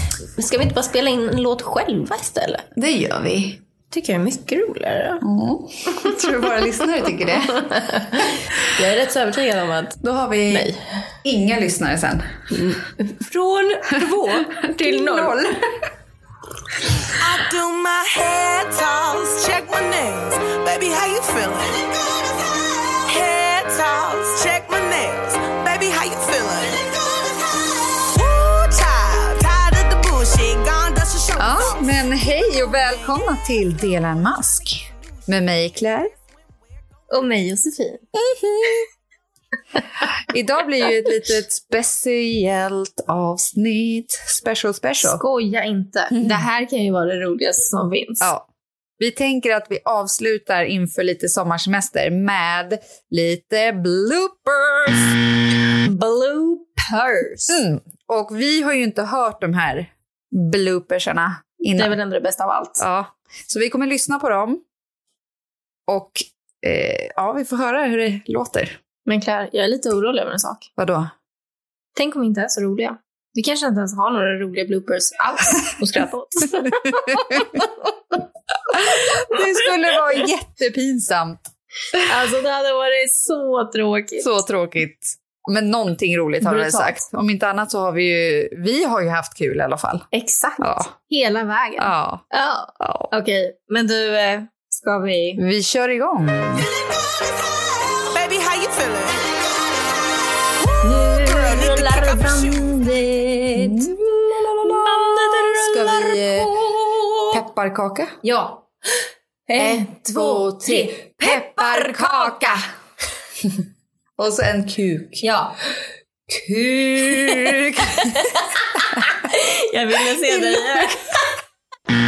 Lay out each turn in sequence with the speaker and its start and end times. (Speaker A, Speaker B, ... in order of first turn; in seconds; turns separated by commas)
Speaker A: 0.3-2.7, Speaker B: 2.7-3.6, Speaker A: 3.9-5.3, Speaker B: 5.2-7.7, Speaker A: 7.4-10.8, Speaker B: 10.0-10.7, Speaker B: 11.2-12.3, Speaker A: 12.5-15.3, Speaker B: 14.3-15.9, Speaker C: 17.1-22.0, Speaker C: 23.1-27.4, Speaker C: 27.9-31.9, Speaker B: 31.4-36.1, Speaker A: 37.1-38.1, Speaker B: 38.2-38.8, Speaker B: 40.2-45.2, Speaker A: 45.0-48.3, Speaker B: 46.1-46.4, Speaker B: 48.2-48.5, Speaker B: 49.0-55.2, Speaker A: 55.8-57.6, Speaker B: 57.5-62.0, Speaker A: 61.7-62.8, Speaker B: 62.8-64.6, Speaker B: 65.9-68.8, Speaker A: 69.0-70.7, Speaker B: 70.8-71.1, Speaker A: 71.9-77.7, Speaker B: 77.0-77.6, Speaker B: 78.7-81.5, Speaker A: 82.0-84.4, Speaker B: 84.2-90.1, Speaker A: 86.4-87.0, Speaker A: 90.1-95.4, Speaker B: 90.6-90.9, Speaker B: 91.8-92.2, Speaker B: 92.8-93.1, Speaker B: 95.4-96.7, Speaker C: 98.0-99.4, Speaker C: 100.6-102.9, Speaker A: 100.8-107.4, Speaker B: 103.5-103.9, Speaker B: 104.6-106.5, Speaker B: 107.3-108.2, Speaker A: 108.2-108.7, Speaker A: 109.5-112.6, Speaker B: 109.5-112.6, Speaker B: 114.2-115.3, Speaker A: 115.2-115.5, Speaker B: 116.3-118.3, Speaker A: 117.1-121.2, Speaker B: 120.3-120.8